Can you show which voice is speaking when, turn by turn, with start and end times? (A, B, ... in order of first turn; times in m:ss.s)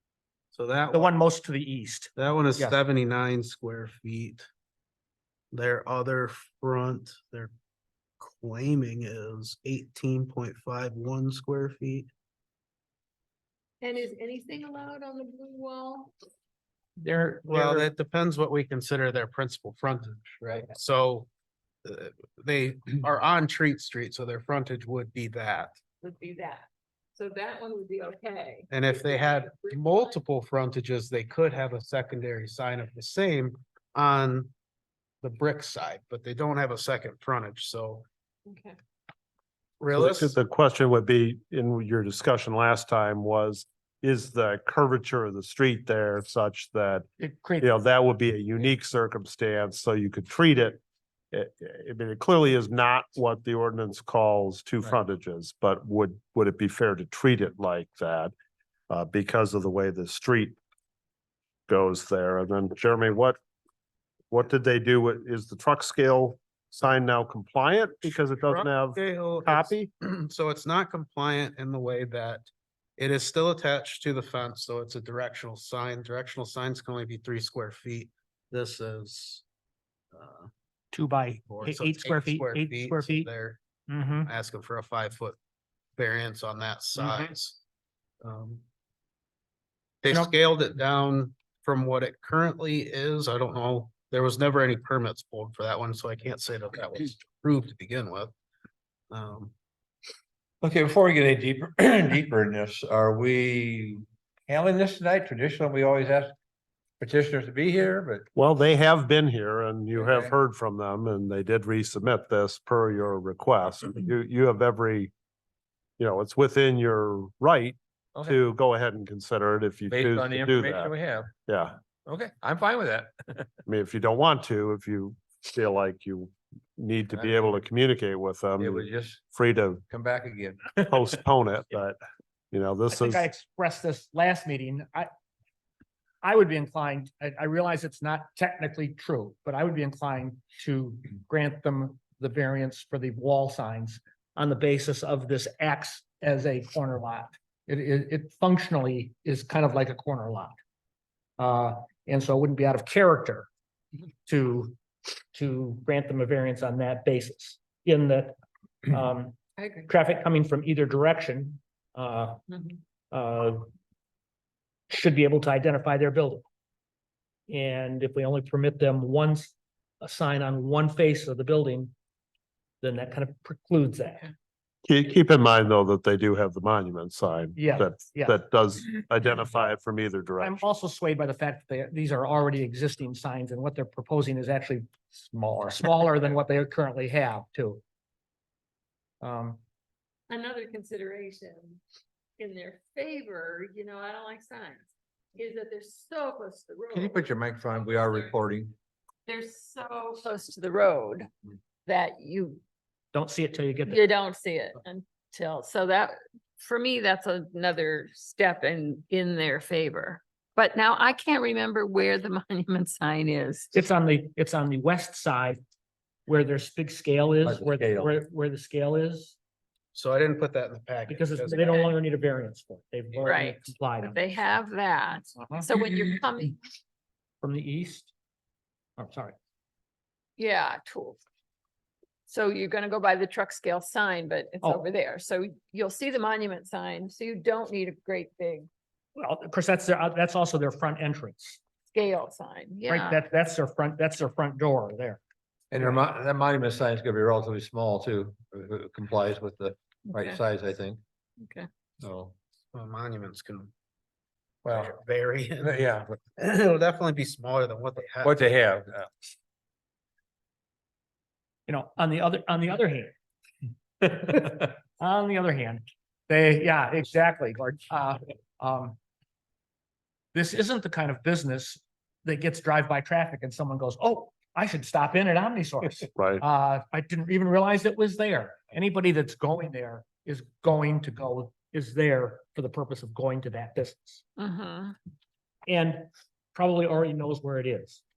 0:00.6-0:01.1 A
0:00.9-0:02.8 B
0:02.2-0:04.5 A
0:05.5-0:07.5 A
0:08.2-0:12.1 A
0:13.8-0:16.1 C
0:17.0-0:17.9 B
0:17.5-0:21.3 A
0:21.8-0:25.8 A
0:26.0-0:30.2 C
0:28.7-0:34.5 A
0:35.2-0:38.1 A
0:38.5-0:38.8 C
0:39.8-0:40.4 A
0:40.0-0:47.1 D
0:47.2-0:47.7 B
0:47.6-0:50.8 D
0:51.3-0:58.3 D
0:58.9-1:00.6 D
1:01.7-1:03.4 D
1:04.3-1:09.9 D
1:08.5-1:19.4 A
1:20.1-1:20.5 A
1:20.9-1:23.3 B
1:21.4-1:23.6 A
1:23.9-1:24.3 B
1:24.3-1:25.4 A
1:26.0-1:27.6 A
1:27.0-1:27.3 B
1:28.2-1:28.6 A
1:30.0-1:38.3 A
1:39.1-1:39.5 A
1:40.6-1:46.4 E
1:47.0-1:48.3 E
1:48.4-1:55.1 D
1:50.0-1:50.3 E
1:56.0-2:00.9 D
1:59.9-2:01.3 E
2:01.5-2:01.8 D
2:02.0-2:03.5 E
2:03.7-2:09.8 D
2:07.1-2:07.6 E
2:08.6-2:09.2 E
2:09.9-2:11.0 E
2:10.8-2:12.0 D
2:12.5-2:13.3 D
2:12.9-2:15.1 B
2:16.2-2:30.6 B
2:31.4-2:33.5 B
2:34.3-2:34.8 B
2:35.3-2:38.4 B
2:38.9-2:42.4 B
2:39.6-2:39.9 C
2:42.5-2:42.8 C
2:43.1-2:43.7 B
2:44.9-2:46.4 B
2:47.5-2:51.9 B
2:52.8-2:54.3 B
2:54.9-3:00.6 D
2:57.6-2:58.4 B
3:00.4-3:07.8 B
3:09.2-3:09.6 B
3:10.3-3:11.8 C
3:12.4-3:17.3 C
3:16.9-3:18.8 E
3:18.0-3:18.3 C
3:19.3-3:21.3 C
3:21.9-3:22.6 C
3:23.1-3:24.0 B
3:23.9-3:33.8 C
3:33.7-3:35.6 B
3:36.3-3:39.4 B
3:37.4-3:38.1 E
3:39.9-3:41.8 A
3:41.1-3:44.2 B
3:41.5-3:41.9 C
3:43.1-3:46.6 C
3:45.4-3:45.6 B
3:47.4-3:48.1 B
3:49.0-3:49.4 B
3:50.4-3:51.2 C
3:52.3-3:58.7 C
3:59.2-4:01.6 B
4:01.9-4:03.2 C
4:02.9-4:05.2 B
4:05.7-4:11.0 E
4:10.1-4:10.4 C
4:11.4-4:11.7 C
4:12.0-4:12.3 E
4:12.7-4:13.7 A
4:14.6-4:15.8 A
4:14.6-4:14.9 E
4:15.6-4:16.2 E
4:16.4-4:18.4 A
4:18.2-4:19.1 E
4:21.7-4:23.2 B
4:24.0-4:29.0 B
4:30.3-4:44.2 B
4:36.2-4:36.4 D
4:44.4-4:45.0 C
4:45.7-4:48.0 B